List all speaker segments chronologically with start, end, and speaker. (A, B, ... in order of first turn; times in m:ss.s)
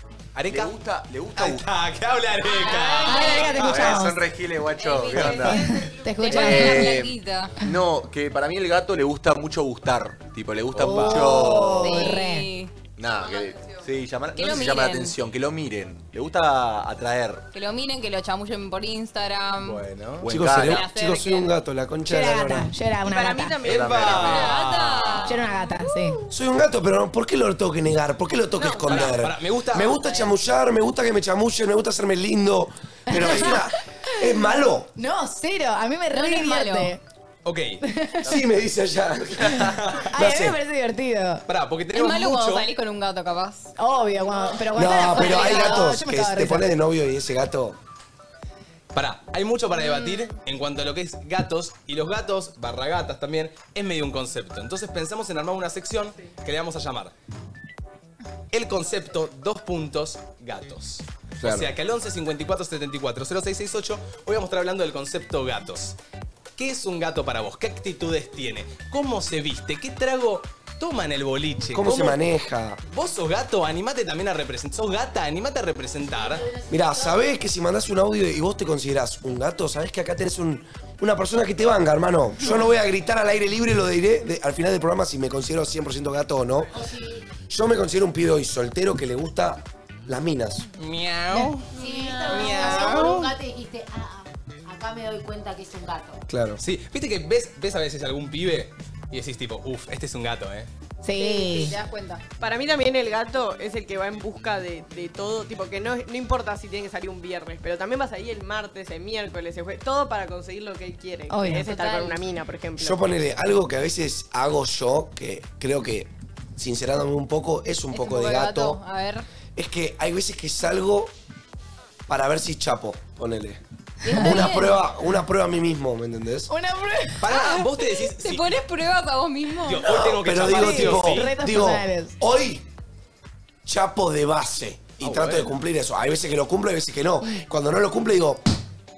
0:00.4-0:00.7 A
0:00.5-0:01.7 B
0:01.4-0:04.0 A
0:02.6-0:03.8 C
0:02.7-0:04.2 D
0:03.5-0:05.6 B
0:04.8-0:07.6 C
0:05.3-0:07.0 D
0:06.2-0:12.1 B
0:10.8-0:11.5 A
0:10.8-0:12.5 D
0:11.8-0:12.7 C
0:13.0-0:17.4 B
0:14.3-0:15.2 C
0:17.5-0:19.8 C
0:19.6-0:20.3 A
0:20.2-0:20.8 B
0:20.3-0:22.7 E
0:20.6-0:21.5 C
0:22.1-0:23.6 D
0:23.0-0:24.3 F
0:23.6-0:25.4 A
0:23.6-0:24.5 B
0:24.1-0:25.6 C
0:25.3-0:26.2 D
0:26.3-0:34.9 E
0:28.8-0:30.0 A
0:30.0-0:30.3 C
0:33.1-0:33.7 D
0:34.3-0:37.0 D
0:36.1-0:36.9 C
0:37.4-0:37.8 A
0:37.8-0:38.4 D
0:38.2-0:40.6 E
0:39.7-0:40.1 A
0:40.1-0:41.4 D
0:41.5-0:42.7 A
0:41.9-0:43.7 C
0:43.8-0:46.7 D
0:44.7-0:47.8 E
0:44.9-0:45.9 C
0:48.9-0:57.1 A
0:49.8-0:50.3 C
0:58.5-1:06.0 A
1:01.4-1:01.7 E
1:06.6-1:12.2 A
1:11.7-1:12.8 E
1:12.9-1:16.5 A
1:16.1-1:17.3 G
1:16.7-1:26.8 E
1:26.7-1:27.3 G
1:27.5-1:30.7 E
1:30.8-1:31.7 A
1:31.7-1:36.2 G
1:31.8-1:33.2 C
1:32.3-1:33.3 A
1:36.3-1:36.6 E
1:36.6-1:40.7 A
1:41.0-1:41.8 D
1:41.1-1:42.2 C
1:42.4-1:53.1 F
1:51.3-1:51.7 D
1:51.6-1:52.2 C
1:52.8-1:58.8 E
1:57.9-1:59.3 C
1:59.6-2:01.1 E
2:02.1-2:06.5 E
2:04.0-2:04.8 C
2:04.1-2:04.6 D
2:06.5-2:07.3 D
2:07.2-2:08.5 A
2:07.3-2:09.8 C
2:09.7-2:11.3 A
2:09.8-2:12.6 E
2:10.4-2:12.2 D
2:13.6-2:18.4 E
2:15.0-2:15.5 A